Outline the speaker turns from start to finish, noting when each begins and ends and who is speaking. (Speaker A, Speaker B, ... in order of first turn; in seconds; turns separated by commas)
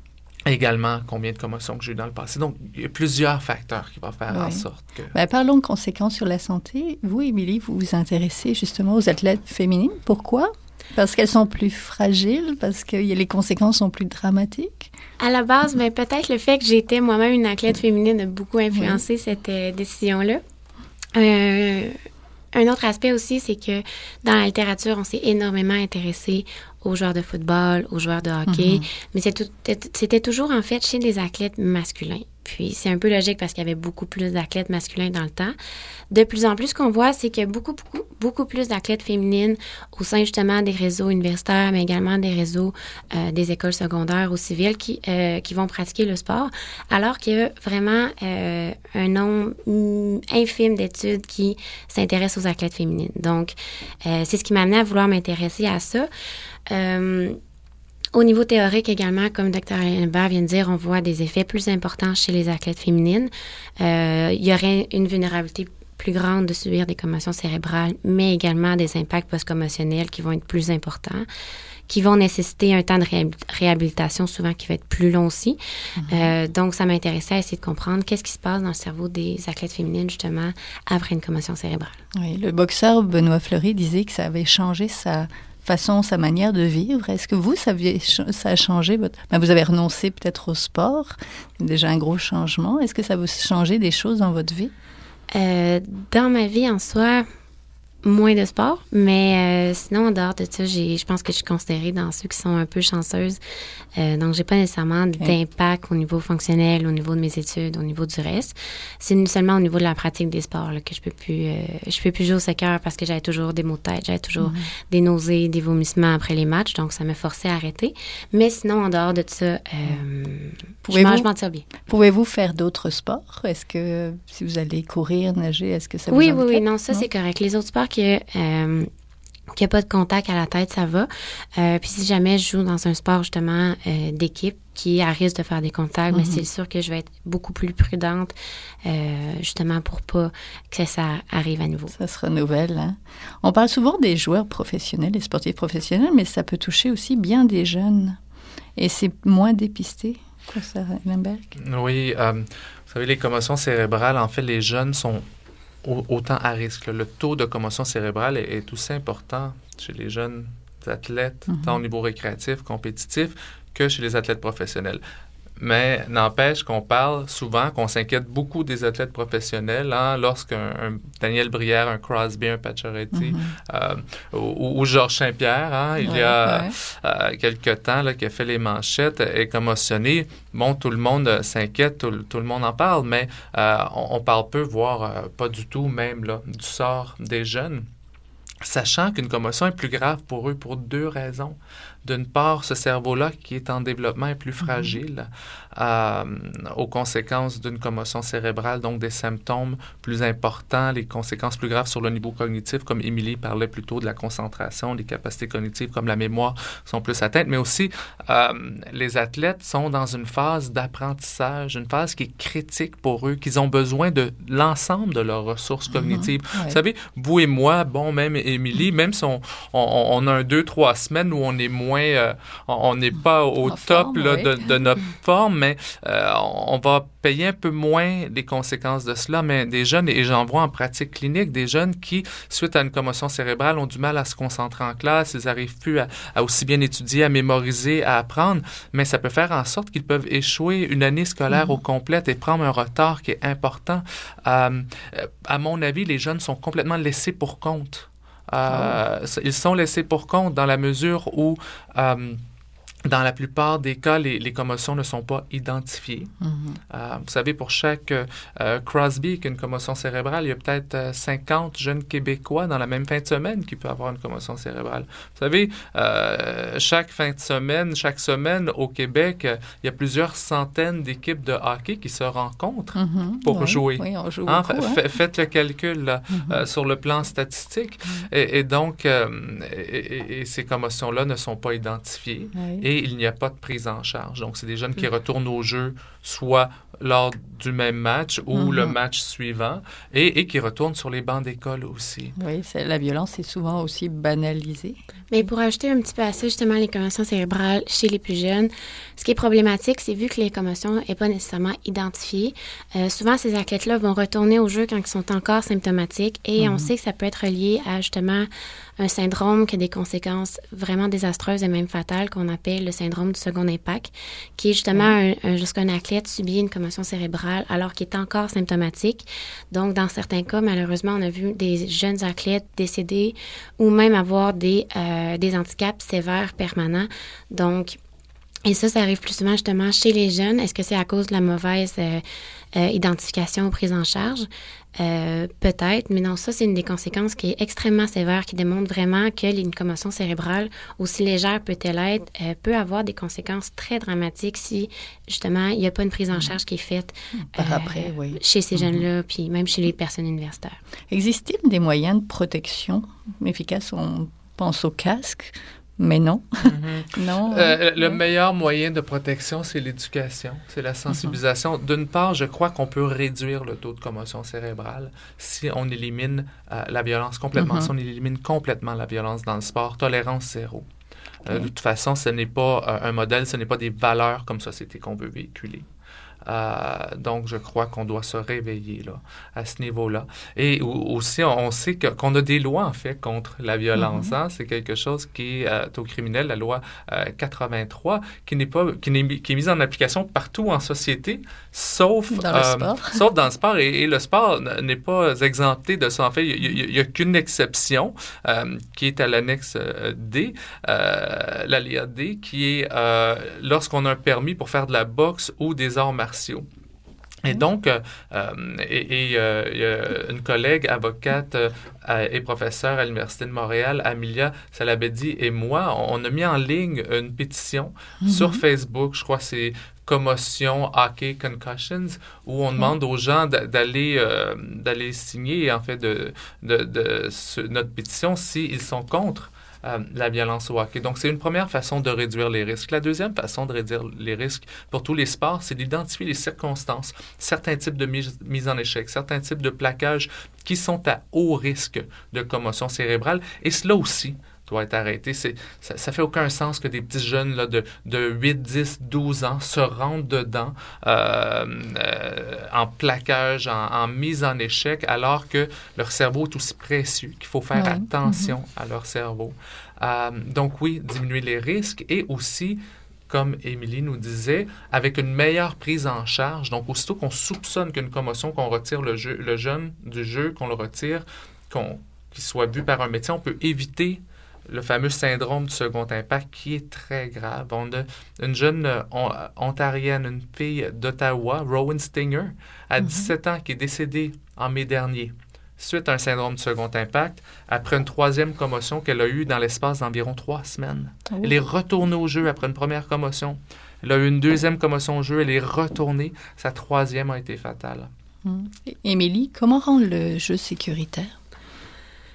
Speaker A: 0.5-5.1, Speaker B: 4.3-14.9, Speaker C: 15.2-20.4, Speaker B: 18.7-19.0, Speaker C: 21.1-22.0, Speaker C: 22.5-35.5, Speaker B: 28.5-28.8, Speaker C: 36.1-56.1, Speaker C: 56.7-57.4, Speaker C: 58.1-71.3, Speaker C: 71.9-82.0, Speaker B: 76.0-76.3, Speaker B: 82.1-94.7, Speaker C: 95.3-97.2, Speaker C: 98.0-103.4, Speaker C: 103.9-121.7, Speaker B: 114.4-114.7, Speaker B: 120.9-121.3, Speaker B: 121.8-127.0, Speaker C: 126.1-128.9, Speaker C: 129.5-141.9, Speaker B: 136.1-136.4, Speaker B: 141.9-148.2, Speaker B: 148.8-151.5, Speaker A: 151.6-155.2, Speaker A: 155.8-165.0, Speaker B: 161.5-161.8, Speaker A: 165.6-187.8, Speaker B: 173.1-173.5, Speaker B: 176.0-176.7, Speaker A: 188.6-252.4, Speaker B: 194.6-195.0, Speaker B: 215.9-216.8, Speaker B: 223.6-224.6, Speaker B: 241.5-241.8, Speaker B: 248.7-249.0, Speaker A: 253.0-256.3, Speaker B: 256.4-256.8, Speaker A: 256.9-292.4, Speaker B: 272.9-275.0, Speaker B: 276.3-276.6, Speaker B: 282.5-282.9, Speaker B: 288.5-288.9, Speaker B: 292.4-295.0, Speaker C: 295.3-308.5, Speaker B: 306.6-306.9, Speaker C: 309.0-328.0, Speaker C: 328.6-350.8, Speaker B: 347.3-349.0, Speaker B: 351.1-358.2, Speaker A: 356.6-370.9, Speaker B: 361.1-361.4, Speaker B: 367.6-367.9, Speaker A: 371.4-375.8, Speaker A: 376.4-406.6, Speaker B: 383.9-384.3, Speaker B: 392.3-393.2, Speaker A: 407.4-498.1, Speaker B: 418.2-418.6, Speaker B: 457.7-458.6, Speaker B: 483.0-483.3, Speaker B: 498.4-501.3